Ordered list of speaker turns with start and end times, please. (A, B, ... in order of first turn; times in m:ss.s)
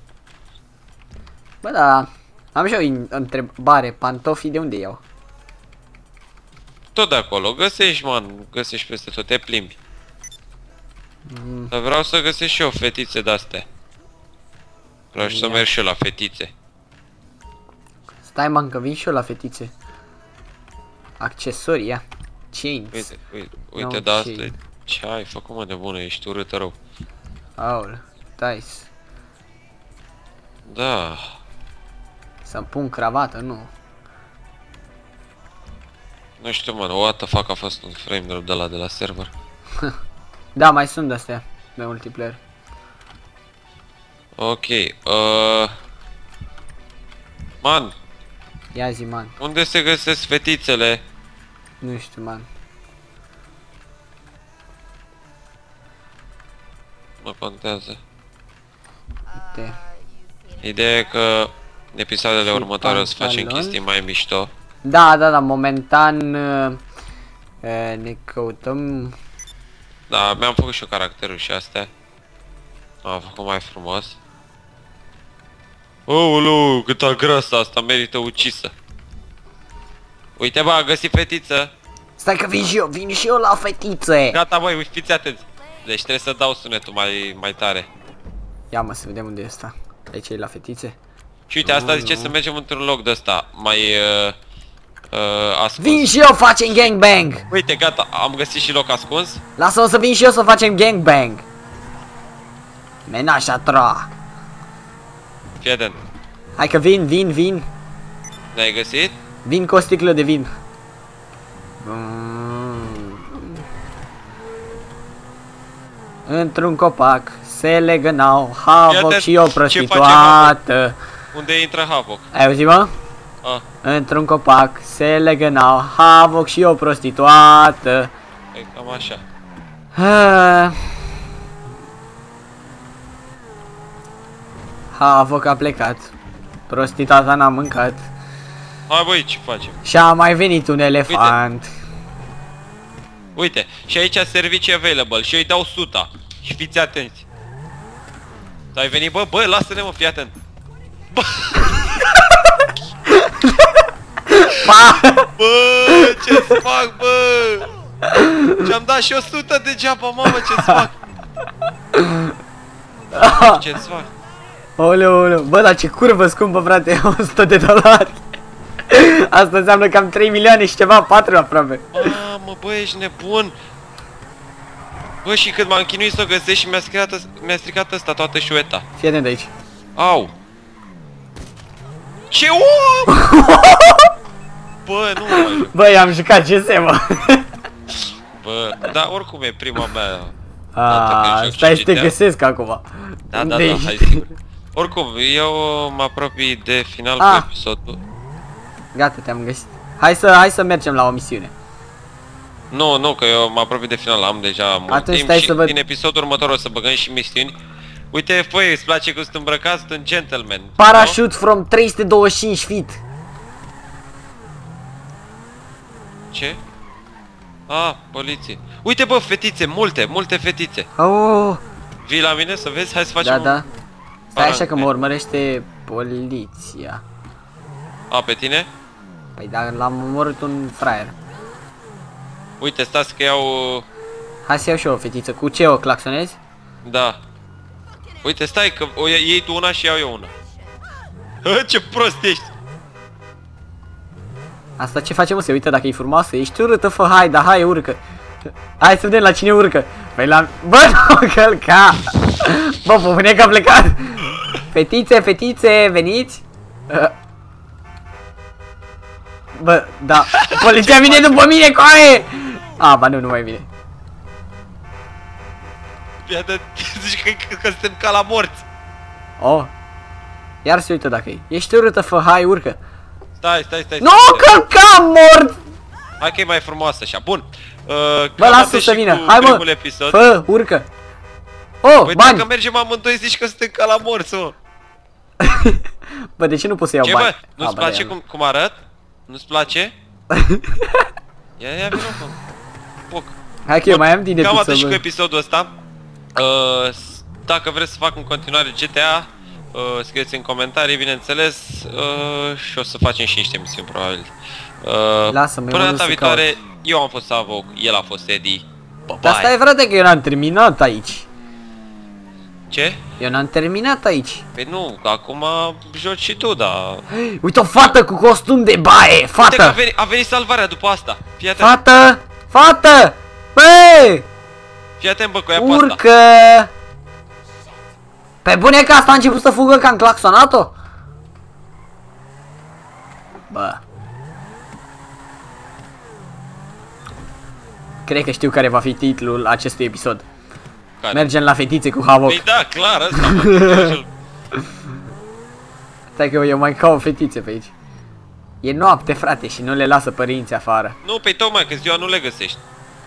0:01.6-0:05.0 A
0:06.9-0:09.8 B
0:11.3-0:11.7 A
0:11.7-0:13.6 B
0:15.1-0:16.5 B
0:15.2-0:15.6 A
0:18.2-0:19.7 A
0:21.2-0:23.1 A
0:22.9-0:26.8 B
0:23.8-0:24.5 A
0:27.6-0:28.9 A
0:30.6-0:31.3 B
0:32.4-0:33.7 A
0:36.4-0:39.3 B
0:40.5-0:42.4 A
0:44.4-0:45.7 B
0:47.6-0:47.9 B
0:48.7-0:49.3 A
0:49.4-0:51.0 B
0:51.8-0:52.5 A
0:57.2-0:58.0 B
0:59.5-0:59.8 A
1:00.6-1:04.5 B
1:02.4-1:03.8 A
1:04.8-1:06.8 A
1:07.6-1:09.1 A
1:10.1-1:11.9 B
1:13.0-1:14.2 B
1:16.1-1:18.7 B
1:20.4-1:21.7 B
1:22.2-1:24.4 A
1:24.3-1:27.9 B
1:28.7-1:31.0 A
1:31.5-1:34.4 B
1:31.6-1:32.3 A
1:35.1-1:36.1 B
1:35.8-1:37.4 A
1:37.5-1:39.4 B
1:39.6-1:41.4 A
1:43.1-1:44.1 A
1:45.6-1:46.0 B
1:46.6-1:47.6 A
1:48.5-1:49.2 B
1:49.4-1:50.5 A
1:51.8-1:53.5 A
1:56.3-2:01.0 A
1:58.9-2:00.5 B
2:01.3-2:02.3 B
2:02.3-2:02.9 A
2:03.8-2:08.1 A
2:08.5-2:09.2 B
2:10.0-2:11.0 A
2:14.9-2:16.1 A
2:16.7-2:18.0 A
2:18.9-2:19.8 B
2:19.8-2:21.7 A
2:21.1-2:21.4 B
2:23.4-2:27.2 B
2:28.7-2:30.3 B
2:31.1-2:32.2 B
2:33.1-2:33.8 A
2:34.3-2:35.3 A
2:35.4-2:37.7 B
2:36.1-2:36.6 A
2:38.1-2:38.7 A
2:38.6-2:41.0 B
2:40.4-2:40.8 A
2:41.9-2:42.3 A
2:43.1-2:43.6 A
2:43.2-2:44.1 B
2:44.8-2:48.2 A
2:48.9-2:52.1 A
2:51.9-2:53.6 B
2:55.2-2:58.8 B
2:59.0-2:59.5 A
3:00.0-3:00.3 B
3:02.3-3:03.2 B
3:03.1-3:04.1 A
3:04.8-3:05.7 B
3:05.3-3:07.5 A
3:08.4-3:10.3 B
3:10.7-3:14.2 A
3:10.8-3:12.1 B
3:13.3-3:18.0 B
3:17.2-3:17.5 A
3:18.9-3:21.5 A
3:22.7-3:27.6 B
3:24.9-3:25.7 A
3:28.1-3:31.2 B
3:30.8-3:33.0 A
3:36.3-3:36.6 B
3:37.7-3:40.9 B
3:41.0-3:41.6 A
3:42.0-3:43.6 B
3:43.2-3:43.6 A
3:44.3-3:47.0 A
3:44.4-3:44.9 B
3:48.1-3:48.7 B
3:49.4-3:51.1 A
3:52.6-3:53.8 B
3:54.4-3:56.4 A
3:56.8-3:57.2 B
3:58.2-4:00.3 B
4:01.4-4:02.5 B
4:04.8-4:08.0 A
4:08.8-4:17.1 A
4:19.5-4:23.7 A
4:20.2-4:21.5 B
4:26.2-4:28.6 B
4:29.4-4:29.7 A
4:30.6-4:32.8 A
4:33.4-4:34.5 B
4:34.0-4:35.6 A
4:36.2-4:40.2 B
4:38.4-4:40.8 A
4:41.8-4:42.4 A
4:42.0-4:44.6 B
4:45.4-4:45.8 A
4:46.4-4:48.1 A
4:47.0-4:49.9 B
4:50.3-4:51.1 A
4:51.6-4:52.4 B
4:53.1-4:55.7 B
4:53.7-4:55.0 A
4:56.4-5:09.5 B
5:05.3-5:06.5 A
5:09.2-5:11.2 A
5:12.7-5:13.0 B
5:13.2-5:14.4 A
5:14.5-5:17.0 B
5:17.1-5:19.8 A
5:19.4-5:21.7 B
5:21.6-5:24.2 A
5:25.0-5:26.0 B
5:25.6-5:26.7 A
5:28.4-5:30.7 A
5:33.5-5:33.8 A
5:38.0-5:40.2 A
5:41.0-5:41.3 B
5:41.1-5:42.4 A
5:42.2-5:44.1 B
5:43.2-5:43.9 A
5:46.2-5:47.7 A
5:48.6-5:51.0 A
5:51.0-5:52.6 B